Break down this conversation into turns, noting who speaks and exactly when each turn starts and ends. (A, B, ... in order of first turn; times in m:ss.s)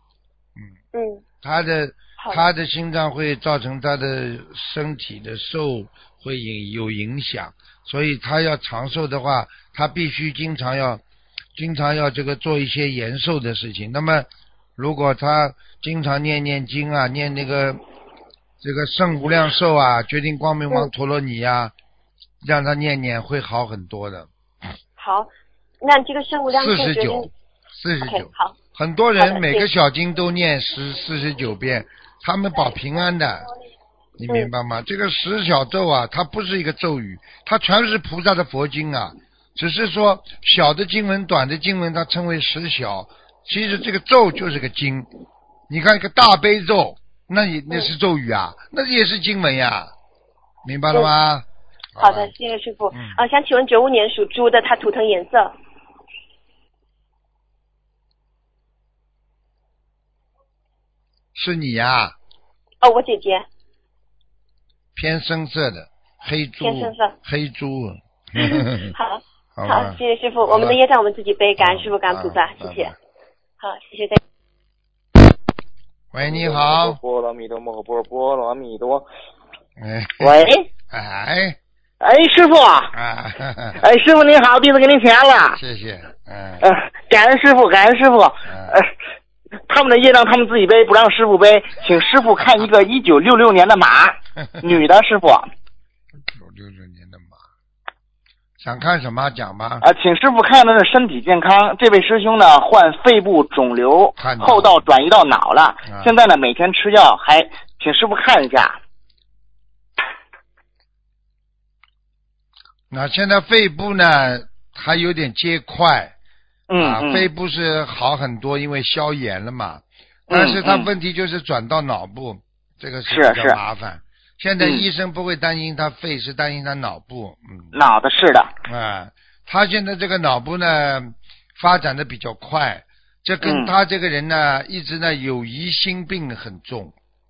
0:00.9-0:01.2 A
0:01.4-0:11.0 B
0:02.2-0:02.4 A
0:11.5-0:17.8 B
0:18.6-0:21.7 B
0:22.4-0:24.3 B
0:25.0-0:27.3 A
0:26.5-0:33.5 B
0:28.0-0:28.6 A
0:29.2-0:29.7 A
0:34.2-0:45.1 B
0:45.7-0:49.9 B
0:50.6-0:52.3 B
0:52.0-0:55.5 A
0:52.9-0:53.2 B
1:01.3-1:02.1 B
1:02.8-1:03.4 A
1:04.9-1:09.0 B
1:06.6-1:07.1 A
1:08.4-1:12.9 A
1:09.6-1:10.8 B
1:11.6-1:13.0 B
1:13.6-1:14.2 A
1:16.1-1:17.0 B
1:16.2-1:19.1 C
1:19.8-1:21.6 B
1:20.2-1:20.7 C
1:22.0-1:22.9 C
1:22.9-1:23.8 B
1:23.8-1:25.6 C
1:25.5-1:26.7 B
1:26.6-1:28.9 C
1:28.4-1:28.8 B
1:29.7-1:35.5 C
1:36.3-1:37.4 B
1:38.6-1:39.8 B
1:39.8-1:48.8 C
1:44.2-1:44.8 B
1:45.8-1:46.2 B
1:52.9-1:56.1 B
1:56.7-1:57.3 C
1:56.8-2:07.8 B
2:00.3-2:00.9 C
2:03.1-2:03.6 C
2:04.6-2:04.8 C
2:07.7-2:08.5 C
2:08.6-2:16.9 B
2:13.4-2:13.7 C